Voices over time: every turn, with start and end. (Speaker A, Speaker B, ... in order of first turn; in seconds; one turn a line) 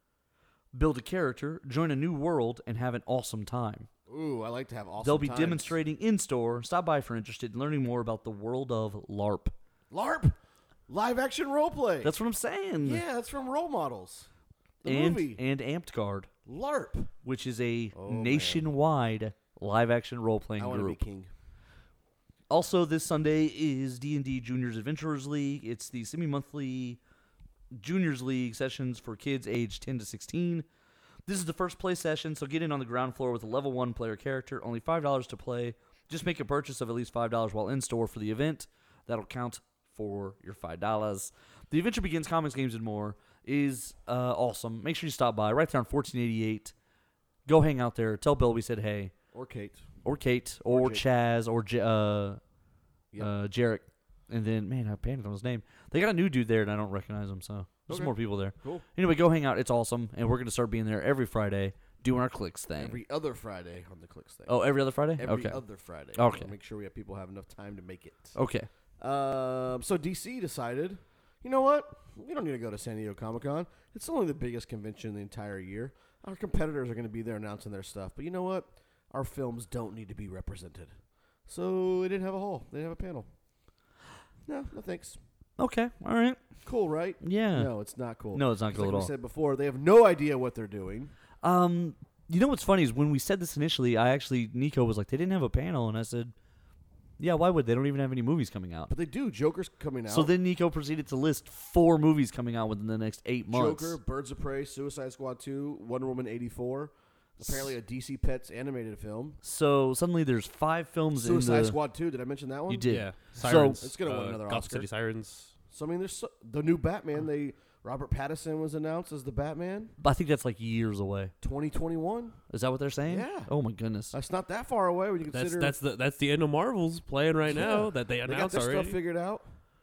Speaker A: 0.7-3.9
Speaker B: 4.1-5.8
Speaker A: 5.0-9.5
Speaker B: 9.9-10.4
Speaker B: 10.9-12.1
Speaker A: 12.0-13.0
Speaker B: 12.8-14.3
Speaker B: 14.8-15.4
Speaker A: 14.8-16.3
Speaker B: 16.4-17.1
Speaker A: 17.2-21.0
Speaker B: 17.9-18.7
Speaker B: 20.6-21.3
Speaker A: 22.5-27.0
Speaker A: 27.7-30.6
Speaker A: 31.3-46.7
Speaker A: 47.5-49.1
Speaker B: 49.3-49.9
Speaker A: 50.0-52.4
Speaker B: 50.7-51.0
Speaker A: 53.2-63.0
Speaker B: 57.9-58.9
Speaker B: 62.8-64.6
Speaker A: 64.5-65.6
Speaker B: 65.1-68.3
Speaker A: 66.2-66.5
Speaker A: 68.3-68.7
Speaker B: 69.0-80.9
Speaker B: 81.5-83.3
Speaker B: 84.5-85.2
Speaker A: 85.6-86.4
Speaker B: 86.6-91.1
Speaker A: 87.2-87.7
Speaker A: 88.3-89.1
Speaker A: 91.4-96.3
Speaker A: 97.2-98.9
Speaker B: 98.9-100.3
Speaker A: 100.1-104.0
Speaker B: 103.5-109.4
Speaker A: 109.4-111.8
Speaker B: 111.1-114.9
Speaker A: 112.7-113.8
Speaker C: 112.9-115.5
Speaker B: 115.7-120.0
Speaker A: 120.0-121.3
Speaker B: 121.4-122.4
Speaker A: 122.5-124.1
Speaker B: 123.1-123.5
Speaker B: 124.1-125.7
Speaker C: 125.3-129.0
Speaker B: 127.5-129.5